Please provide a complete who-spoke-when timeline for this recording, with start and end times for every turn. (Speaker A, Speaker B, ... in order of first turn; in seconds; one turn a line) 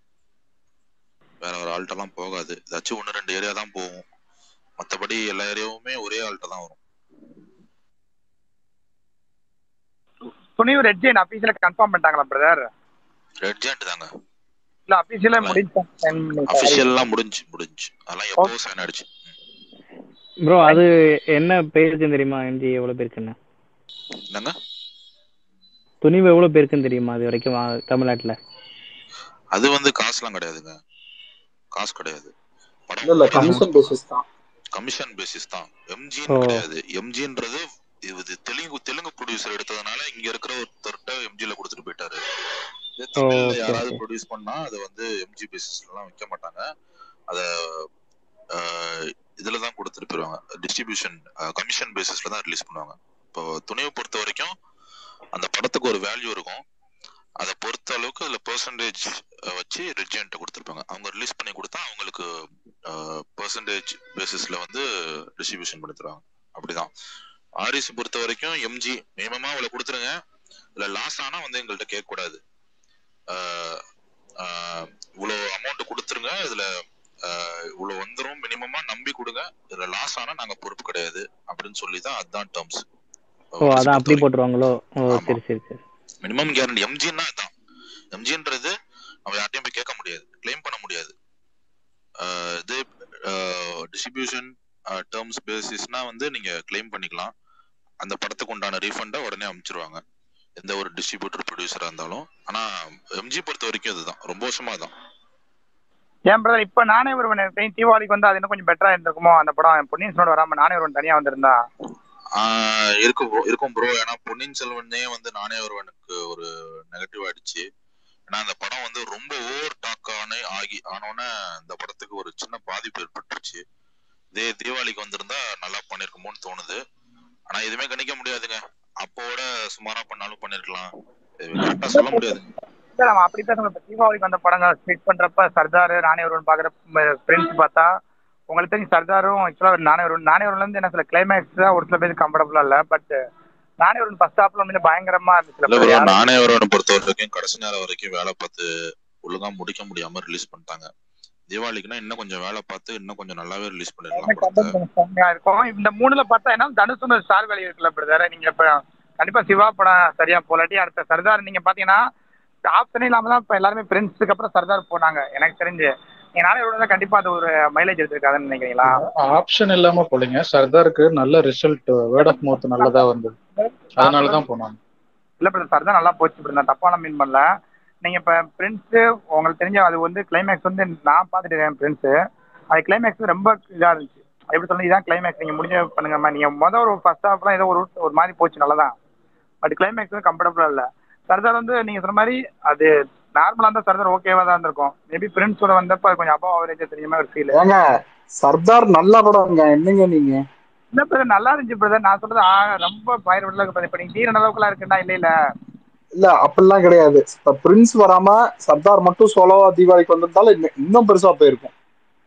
Speaker A: 1.4-4.1
Speaker A: 4.8-6.8
Speaker B: 10.6-12.7
Speaker A: 13.4-14.1
Speaker B: 14.9-17.0
Speaker A: 16.5-19.3
Speaker C: 20.4-23.4
Speaker C: 26.0-28.4
Speaker A: 29.6-30.8
Speaker A: 31.8-32.3
Speaker A: 32.9-33.9
Speaker D: 33.0-34.2
Speaker A: 34.8-42.2
Speaker C: 36.3-36.6
Speaker A: 43.0-46.6
Speaker C: 43.2-44.0
Speaker A: 47.3-47.9
Speaker A: 48.6-54.5
Speaker A: 55.4-56.6
Speaker A: 57.4-62.2
Speaker A: 62.9-64.8
Speaker A: 65.4-66.9
Speaker A: 67.6-70.2
Speaker A: 70.8-72.4
Speaker A: 73.3-73.8
Speaker A: 74.4-76.7
Speaker A: 77.3-82.8
Speaker A: 83.6-84.3
Speaker C: 83.6-85.8
Speaker A: 85.1-85.4
Speaker A: 86.2-87.5
Speaker A: 88.1-88.7
Speaker A: 89.3-91.1
Speaker A: 92.2-97.3
Speaker A: 98.0-100.0
Speaker A: 100.6-102.7
Speaker A: 103.2-104.9
Speaker B: 106.3-111.6
Speaker A: 112.4-117.6
Speaker A: 118.3-123.6
Speaker A: 124.3-126.8
Speaker A: 127.5-132.4
Speaker B: 131.9-132.4
Speaker B: 132.9-137.9
Speaker B: 138.5-143.2
Speaker B: 143.8-146.4
Speaker A: 145.7-148.7
Speaker A: 149.2-150.9
Speaker A: 151.5-154.7
Speaker B: 154.1-162.0
Speaker B: 162.7-169.0
Speaker E: 168.9-173.3
Speaker B: 172.2-174.4
Speaker E: 174.0-174.8
Speaker B: 175.4-177.4
Speaker B: 178.0-182.1
Speaker B: 182.7-188.9
Speaker B: 189.6-197.6
Speaker D: 197.5-197.8
Speaker D: 198.4-200.4
Speaker B: 200.9-205.3
Speaker D: 206.2-211.7